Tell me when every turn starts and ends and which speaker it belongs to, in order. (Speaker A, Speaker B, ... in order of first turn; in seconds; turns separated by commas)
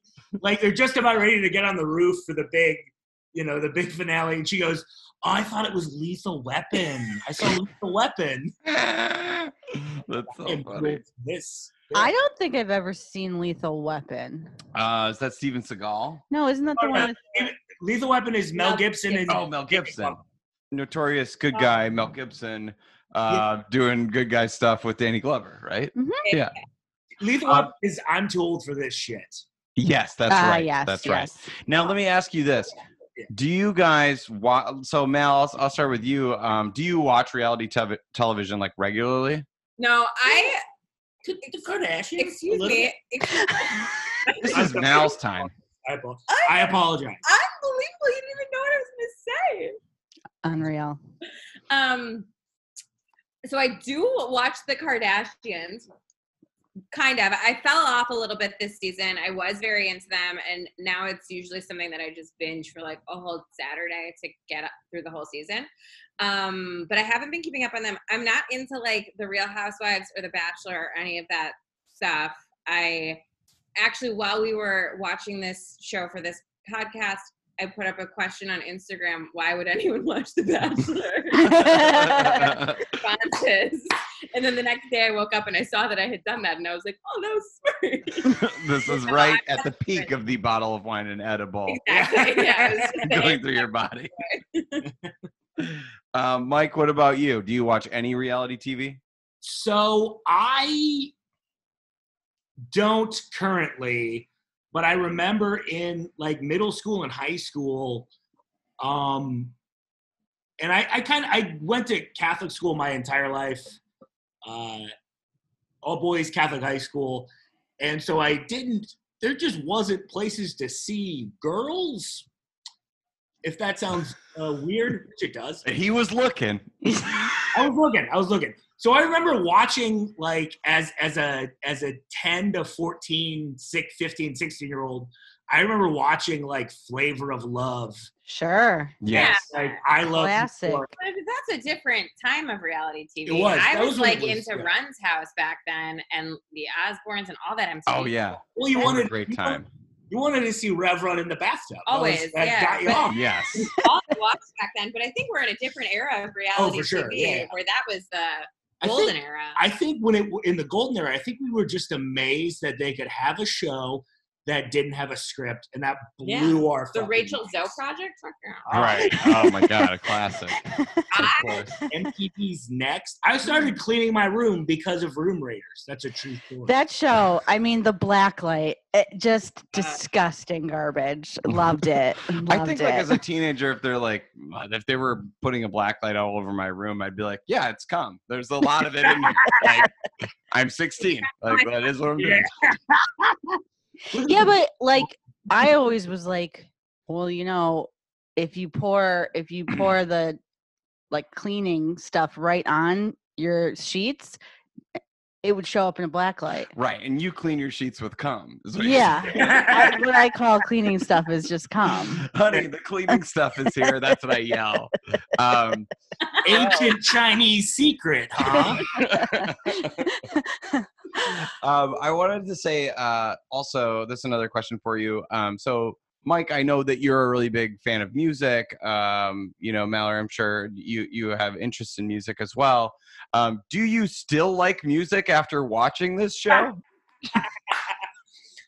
Speaker A: 0.4-8.6, Speaker B: 8.7-11.0, Speaker A: 10.4-12.1, Speaker C: 11.9-14.5, Speaker B: 14.7-16.2, Speaker C: 16.3-17.2, Speaker A: 16.8-20.2, Speaker D: 18.6-19.5, Speaker B: 19.3-20.2, Speaker B: 20.7-26.5, Speaker C: 26.0-26.3, Speaker D: 26.2-26.5, Speaker A: 27.2-29.4, Speaker B: 29.8-32.8, Speaker C: 30.3-31.4, Speaker B: 33.3-39.5, Speaker D: 39.8-40.6, Speaker A: 41.2-42.9, Speaker D: 42.2-45.0, Speaker C: 43.4-43.8, Speaker B: 44.4-45.5, Speaker A: 44.5-45.2, Speaker A: 45.8-47.2, Speaker D: 46.3-49.8, Speaker C: 50.4-51.0, Speaker D: 51.7-52.3, Speaker D: 53.5-55.9, Speaker D: 56.9-65.7, Speaker D: 66.2-73.2, Speaker D: 73.8-90.1, Speaker C: 81.4-82.3, Speaker B: 81.5-83.0, Speaker B: 88.2-91.8, Speaker D: 91.7-94.8, Speaker A: 91.9-92.9, Speaker B: 93.0-94.1, Speaker A: 94.8-95.1, Speaker B: 95.6-99.0, Speaker A: 99.4-101.1, Speaker A: 102.7-108.1, Speaker A: 108.8-109.5, Speaker A: 110.6-113.8, Speaker A: 114.5-114.9, Speaker A: 115.8-122.3, Speaker A: 123.4-125.7, Speaker B: 125.7-127.3, Speaker C: 126.8-127.3, Speaker A: 127.5-138.1, Speaker C: 138.3-139.0, Speaker B: 139.0-139.4, Speaker A: 139.1-140.9, Speaker D: 139.1-139.8, Speaker C: 140.1-140.9, Speaker D: 141.0-148.4, Speaker A: 143.3-144.7, Speaker B: 147.9-149.7, Speaker A: 148.6-153.2, Speaker D: 151.9-159.6, Speaker B: 153.1-153.7, Speaker A: 156.6-157.5, Speaker C: 157.2-157.4, Speaker A: 158.8-167.8, Speaker D: 166.2-169.4, Speaker A: 168.7-169.2, Speaker B: 168.7-171.7, Speaker C: 170.7-171.1, Speaker D: 171.1-171.7, Speaker A: 171.5-176.7, Speaker C: 176.7-183.1, Speaker B: 182.5-189.9, Speaker A: 189.5-189.8, Speaker B: 190.5-192.5, Speaker A: 192.2-193.6, Speaker A: 194.1-194.5, Speaker C: 194.2-200.4, Speaker C: 201.1-204.4, Speaker C: 205.4-206.7, Speaker B: 206.7-209.8, Speaker C: 208.8-212.3, Speaker A: 209.3-210.1, Speaker B: 212.2-215.9, Speaker D: 216.3-216.7, Speaker A: 216.4-218.9, Speaker B: 218.5-220.1, Speaker C: 219.2-221.4, Speaker B: 221.6-236.8, Speaker A: 237.3-237.9